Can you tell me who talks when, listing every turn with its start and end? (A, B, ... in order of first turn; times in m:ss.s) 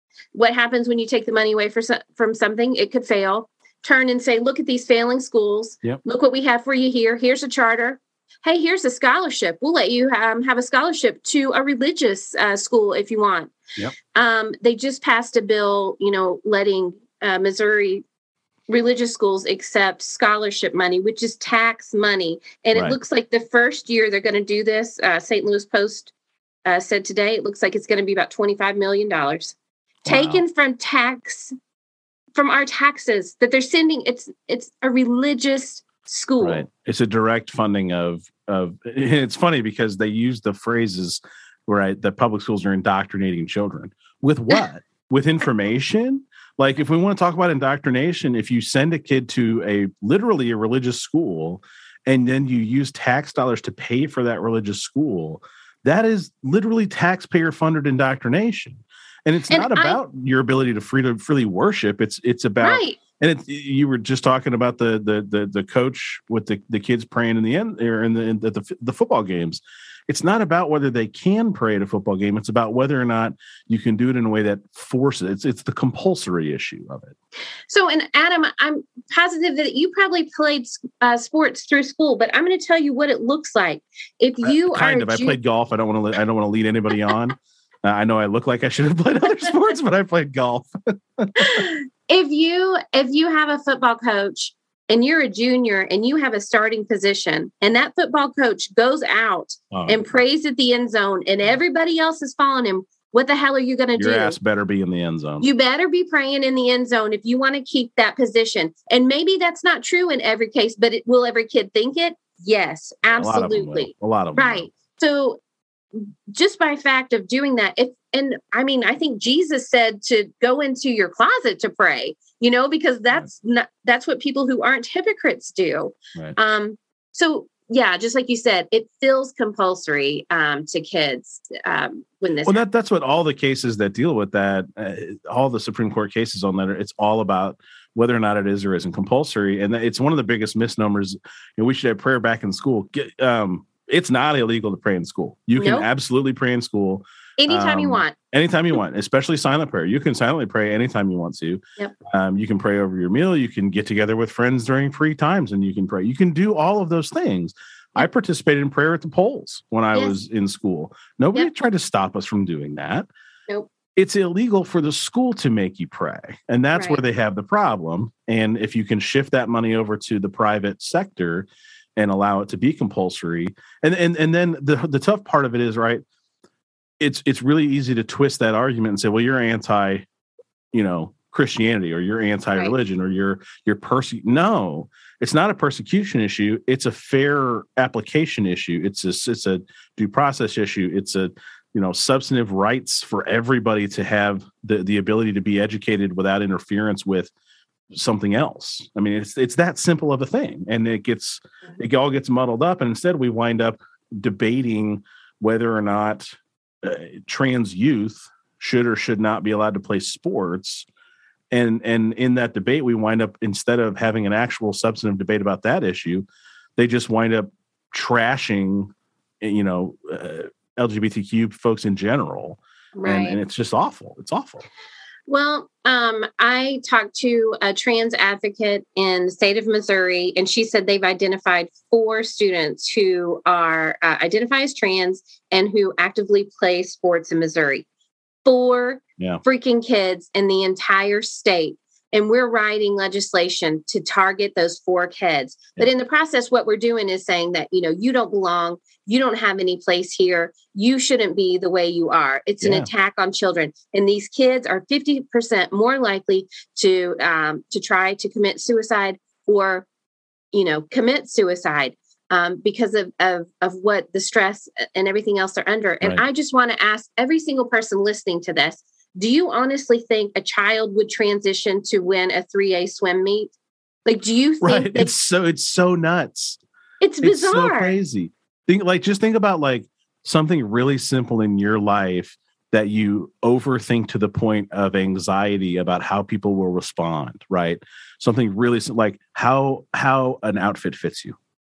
0:00.3-0:13.6 A
0:14.1-0:18.0 A
0:18.7-0:26.1 A
0:26.6-0:31.5 A
0:30.0-0:30.4 B
0:32.3-0:36.6 A
0:36.4-1:17.1 B
0:59.5-1:00.0 A
1:02.6-1:03.0 A
1:17.7-1:25.4 A
1:24.4-1:31.7 B
1:31.4-1:44.4 A
1:39.7-1:40.2 B
1:44.0-1:45.5 B
1:45.4-1:55.4 A
1:53.1-1:54.7 B
1:56.0-2:12.6 A
2:12.4-2:43.1 B
2:25.6-2:25.9 A
2:27.4-2:28.1 A
2:44.0-2:56.0 B
2:46.7-2:47.0 A
2:57.0-3:00.0 B
3:00.7-3:17.3 B
3:17.9-3:30.9 B
3:31.5-3:44.6 B
3:42.9-3:43.4 A
3:45.3-3:57.8 A
3:58.4-4:19.8 A
4:12.6-4:12.9 B
4:20.5-4:33.5 A
4:34.0-4:35.1 A
4:34.6-4:36.6 B
4:37.0-4:38.0 A
4:37.2-4:51.4 B